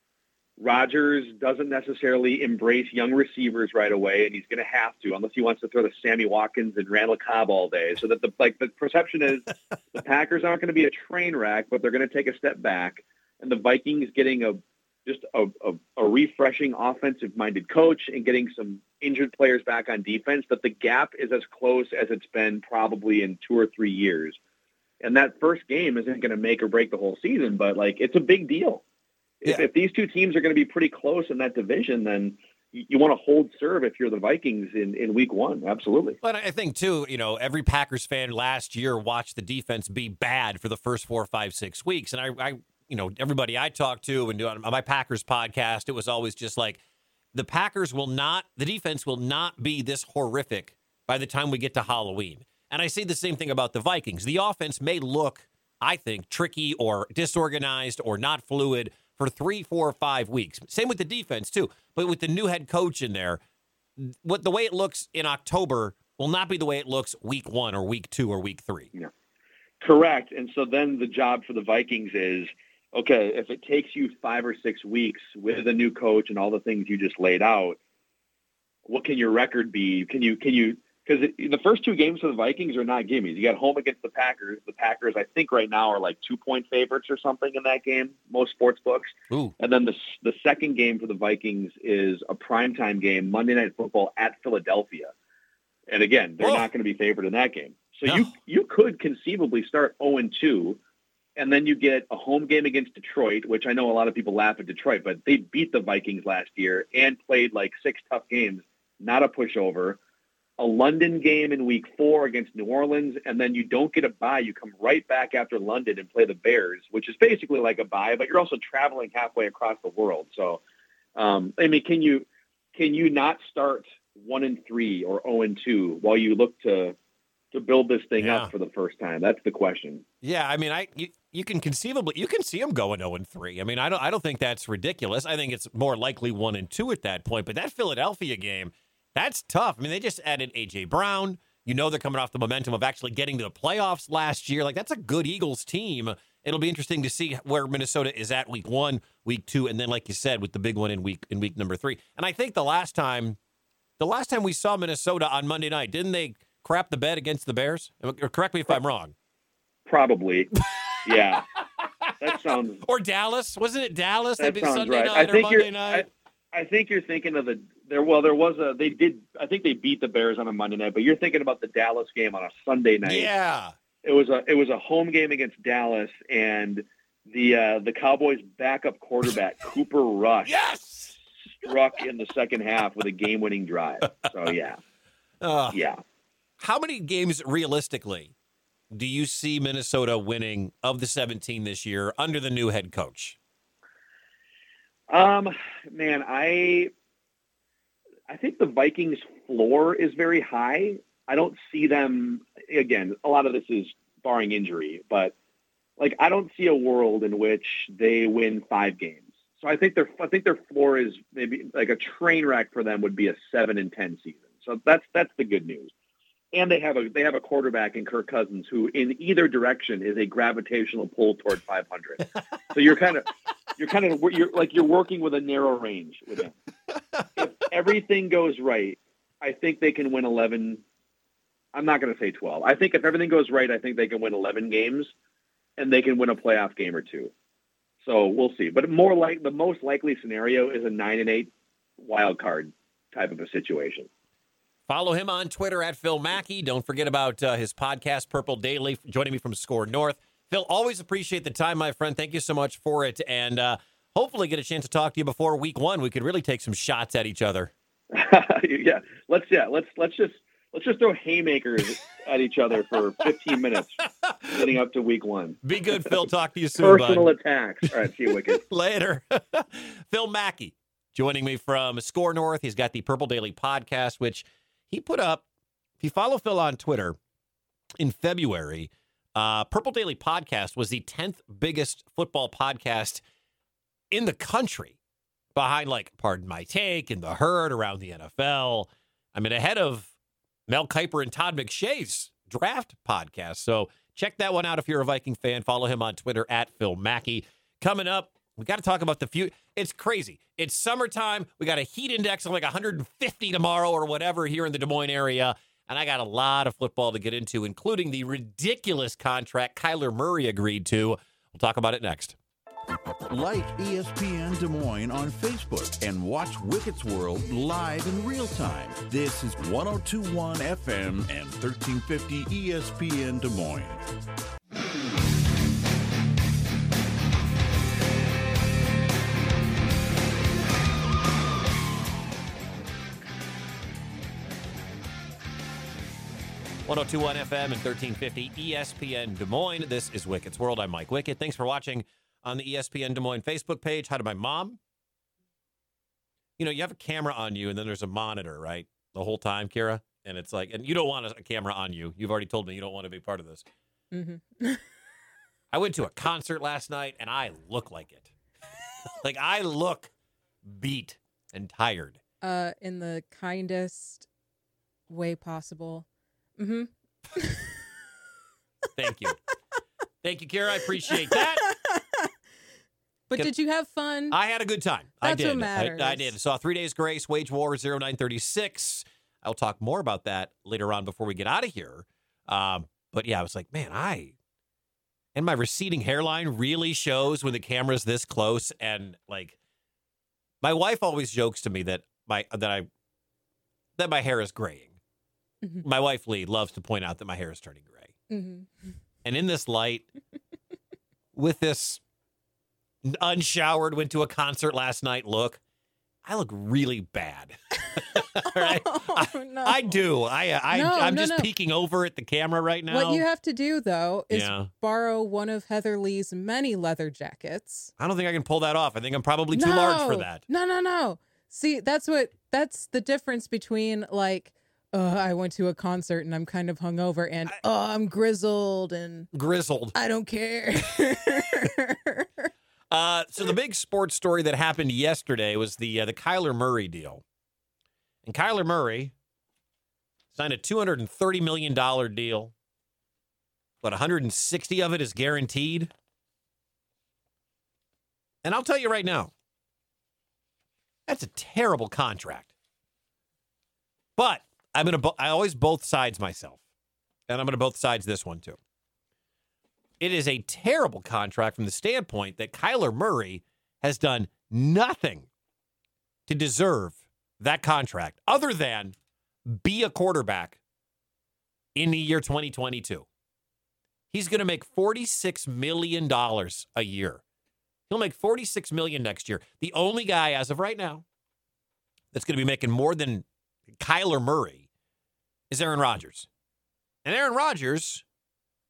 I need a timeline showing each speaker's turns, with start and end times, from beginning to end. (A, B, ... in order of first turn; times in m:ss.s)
0:00.6-0:24.4 A
0:25.0-0:28.8 A
0:29.4-0:36.2 A
0:36.2-0:46.8 B
0:47.3-1:03.4 B
1:04.0-1:08.9 B
1:09.8-1:17.8 A
1:18.9-1:35.1 A
1:35.9-1:40.8 A
1:36.4-1:36.7 B
1:38.0-1:38.3 B
1:41.4-1:50.0 A
1:50.6-2:00.6 A
2:01.2-2:07.0 A
2:07.5-2:10.0 A
2:08.2-2:08.5 B
2:10.2-2:33.4 B
2:34.0-2:39.1 B
2:39.9-2:40.5 A
2:40.7-2:41.1 B
2:41.0-2:41.5 A
2:41.6-2:46.1 B
2:42.2-2:42.8 A
2:44.4-2:53.3 A
2:53.0-2:53.7 B
2:54.0-3:00.6 A
3:00.4-3:01.2 B
3:01.6-3:04.8 A
3:05.4-3:05.8 B
3:05.7-3:06.0 A
3:06.6-3:08.3 B
3:08.9-3:13.4 B
3:15.1-3:16.9 A
3:18.3-3:25.3 A
3:26.0-3:35.9 A
3:36.5-3:46.5 A
3:47.4-3:50.8 A
3:51.7-3:55.1 A
3:55.8-3:57.3 A
3:58.0-4:04.1 A
4:04.9-4:17.7 B
4:18.1-4:26.2 A
4:24.2-4:24.7 B
4:25.6-4:27.3 B
4:26.8-4:28.6 A
4:27.9-4:35.4 B
4:36.0-4:37.2 B
4:38.0-4:43.2 B
4:44.1-4:45.0 B
4:45.6-4:50.1 B
4:50.7-5:12.4 B
5:13.3-5:24.0 C
5:36.9-5:44.8 B
5:46.6-5:53.6 B
5:54.1-5:54.9 D
5:55.7-5:58.3 B
5:59.2-6:00.1 B
6:00.6-6:02.2 B
6:02.4-6:04.3 D
6:05.1-6:06.0 D
6:06.6-6:07.8 D
6:09.0-6:09.4 B
6:10.2-6:11.7 B
6:11.7-6:12.3 D
6:13.3-6:14.4 D
6:14.3-6:24.3 B
6:15.2-6:16.3 D
6:25.4-6:29.6 B
6:30.6-6:32.9 B
6:34.0-6:34.9 B
6:35.8-6:38.1 B
6:38.3-6:38.7 D
6:39.2-6:40.1 B
6:41.4-6:42.0 B
6:43.0-6:45.6 B
6:46.2-6:53.2 B
6:48.0-6:50.0 D
6:50.7-6:51.5 D
6:52.9-6:57.9 D
6:54.3-6:54.7 B
6:58.0-7:00.4 B
6:59.5-7:09.3 D
7:09.3-7:10.0 B
7:10.0-7:12.5 D
7:12.9-7:17.2 B
7:18.3-7:19.1 B
7:20.3-7:22.5 B
7:23.8-7:25.9 B
7:28.4-7:29.3 B
7:31.1-7:32.5 B
7:34.2-7:36.6 B
7:37.3-7:38.6 B
7:40.0-7:45.3 B
7:46.3-7:49.0 B
7:49.5-7:50.6 B
7:51.8-7:53.1 B
7:54.1-7:57.2 B
7:57.9-8:01.0 B
8:02.1-8:03.2 B
8:03.8-8:04.6 B
8:05.5-8:06.3 B
8:07.0-8:08.0 B